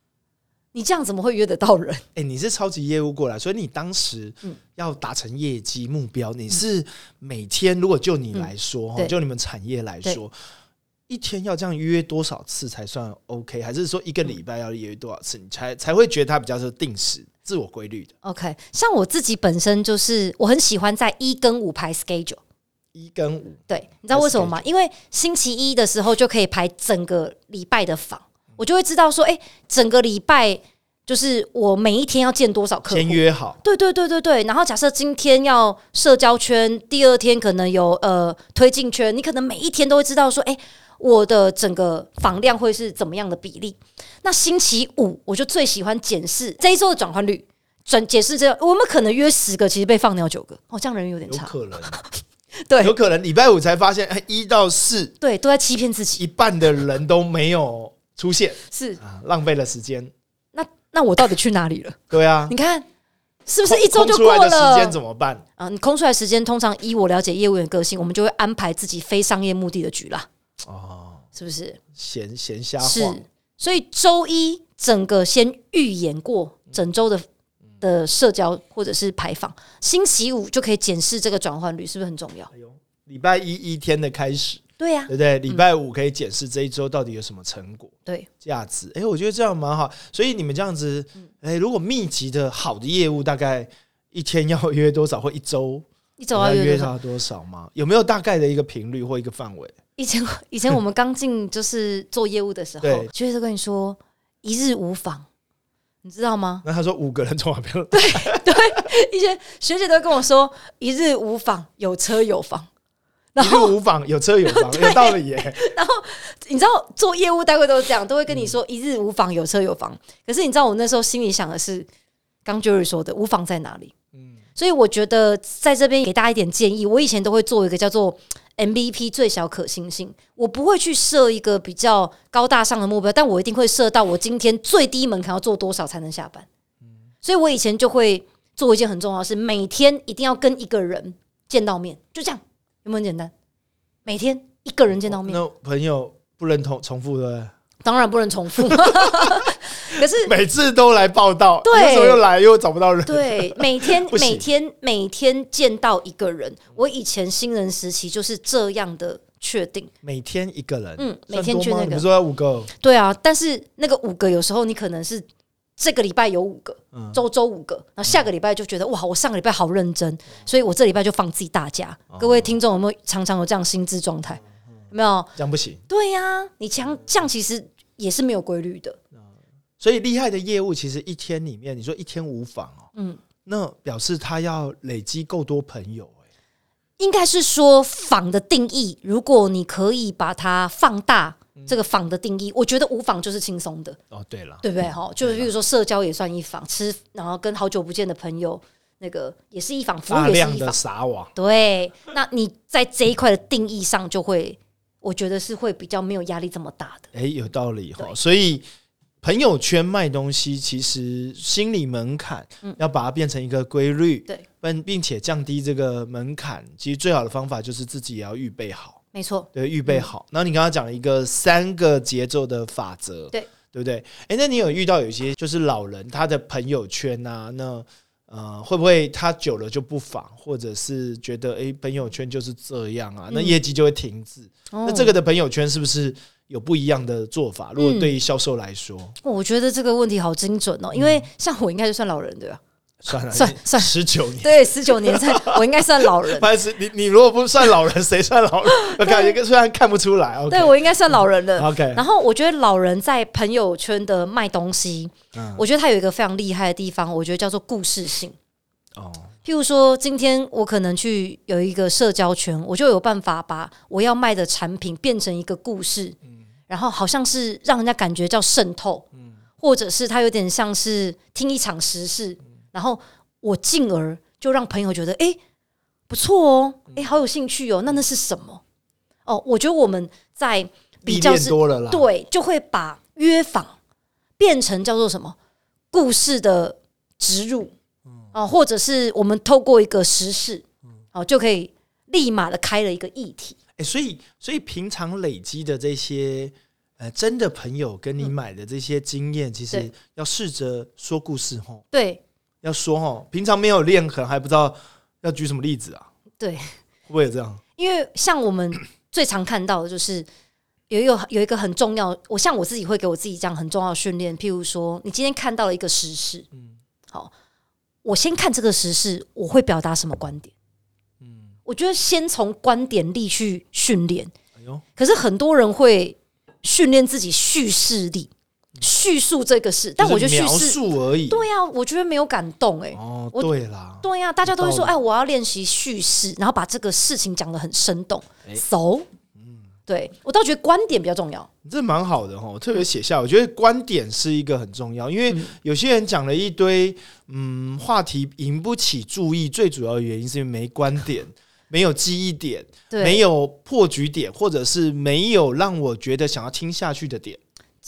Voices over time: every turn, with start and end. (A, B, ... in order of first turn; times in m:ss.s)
0:00.7-0:02.0 A
0:02.1-0:10.3 B
0:08.3-0:09.1 A
0:11.1-0:18.1 B
0:18.2-0:22.4 A
0:22.9-0:24.6 B
0:23.7-0:52.1 A
0:32.9-0:33.6 B
0:51.3-0:52.0 B
0:52.7-0:52.9 A
0:52.8-0:55.1 B
0:55.2-0:56.2 A
0:56.2-1:00.1 B
0:58.7-0:59.0 A
1:00.5-1:02.9 A
1:02.1-1:02.6 B
1:03.4-1:05.0 A
1:03.6-1:05.4 B
1:05.6-1:10.3 A
1:10.6-1:11.2 B
1:11.4-1:11.8 A
1:11.9-1:13.2 B
1:12.8-1:17.2 A
1:17.8-1:22.5 A
1:22.5-1:39.8 B
1:24.8-1:25.6 A
1:36.2-1:36.9 A
1:40.0-1:45.2 A
1:42.8-1:43.1 B
1:46.0-1:46.6 A
1:46.6-1:48.8 B
1:47.9-1:52.7 A
1:53.4-1:53.7 A
1:53.4-1:55.6 B
1:54.5-2:01.9 A
2:02.4-2:03.9 A
2:04.1-2:04.4 B
2:04.6-2:16.4 A
2:17.2-2:23.3 A
2:24.0-2:25.4 A
2:25.0-2:27.5 B
2:27.8-2:30.3 A
2:28.6-2:34.5 B
2:31.6-2:32.2 A
2:33.0-2:39.9 A
2:40.0-2:42.7 B
2:41.0-2:42.0 A
2:42.8-2:45.2 A
2:45.8-2:55.3 A
2:46.9-2:47.2 B
2:52.1-2:52.6 B
2:55.4-2:55.8 B
2:55.9-2:59.0 A
2:59.8-3:02.9 B
3:02.9-3:03.2 A
3:03.4-3:06.2 B
3:07.0-3:14.0 A
3:14.1-3:14.6 B
3:14.6-3:20.8 A
3:15.2-3:15.5 B
3:20.1-3:21.3 B
3:21.4-3:27.1 A
3:27.1-3:28.6 B
3:29.2-3:39.0 B
3:39.1-3:40.1 A
3:39.5-3:59.2 B
3:53.3-3:53.6 A
3:54.7-3:55.1 A
3:57.8-3:58.1 A
3:59.2-4:02.6 A
4:00.9-4:01.2 B
4:03.0-4:10.8 B
4:03.3-4:06.5 A
4:08.7-4:09.4 A
4:10.5-4:18.4 A
4:11.6-4:12.0 B
4:15.3-4:15.6 B
4:19.0-4:19.3 B
4:19.4-4:26.2 A
4:26.7-4:29.0 A
4:29.6-4:35.4 A
4:36.1-4:38.6 A
4:39.2-4:43.8 A
4:41.0-4:42.1 B
4:44.4-4:45.4 A
4:45.9-4:47.7 A
4:48.3-4:50.6 A
4:51.1-4:53.6 A
4:53.8-5:01.9 B
5:01.9-5:02.2 A
5:02.6-5:06.1 B
5:06.4-5:06.7 A
5:07.1-5:07.6 B
5:07.8-5:10.3 A
5:10.9-5:16.4 A
5:18.0-5:20.5 A
5:21.2-5:21.5 B
5:21.6-5:24.3 A
5:24.6-5:24.8 B
5:25.0-5:33.5 A
5:30.0-5:31.4 B
5:32.9-5:34.9 B
5:34.0-5:39.0 A
5:39.4-5:39.6 B
5:39.9-5:41.5 A
5:41.6-5:57.4 B
5:52.9-5:53.2 A